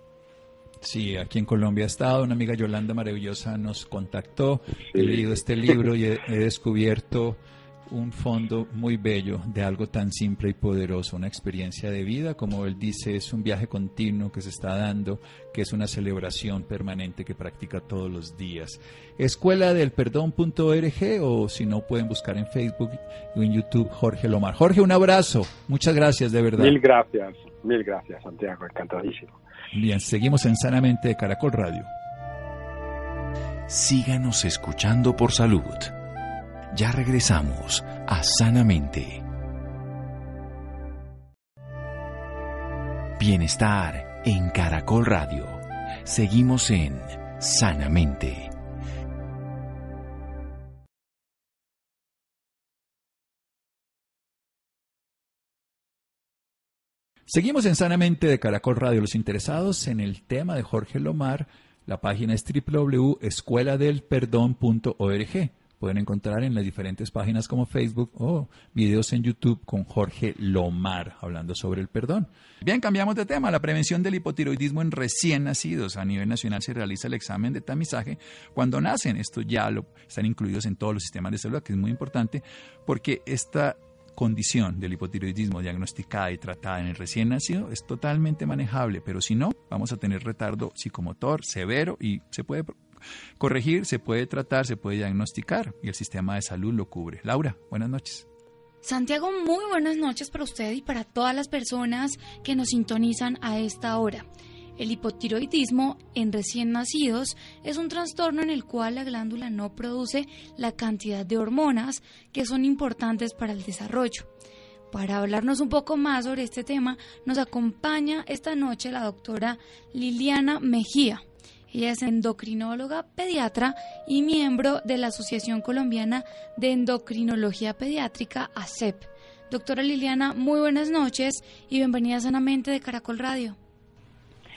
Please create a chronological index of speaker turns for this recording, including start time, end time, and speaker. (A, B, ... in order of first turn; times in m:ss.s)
0:00.8-0:26.8 A
0:04.9-0:05.2 B
0:26.6-0:29.4 B
0:29.7-0:31.9 A
0:33.7-0:35.9 C
0:36.7-0:39.2 C
0:43.2-0:48.5 C
0:57.3-1:32.8 A
1:33.4-1:38.3 A
1:38.8-1:44.2 D
1:44.8-1:54.3 D
1:54.9-2:13.6 D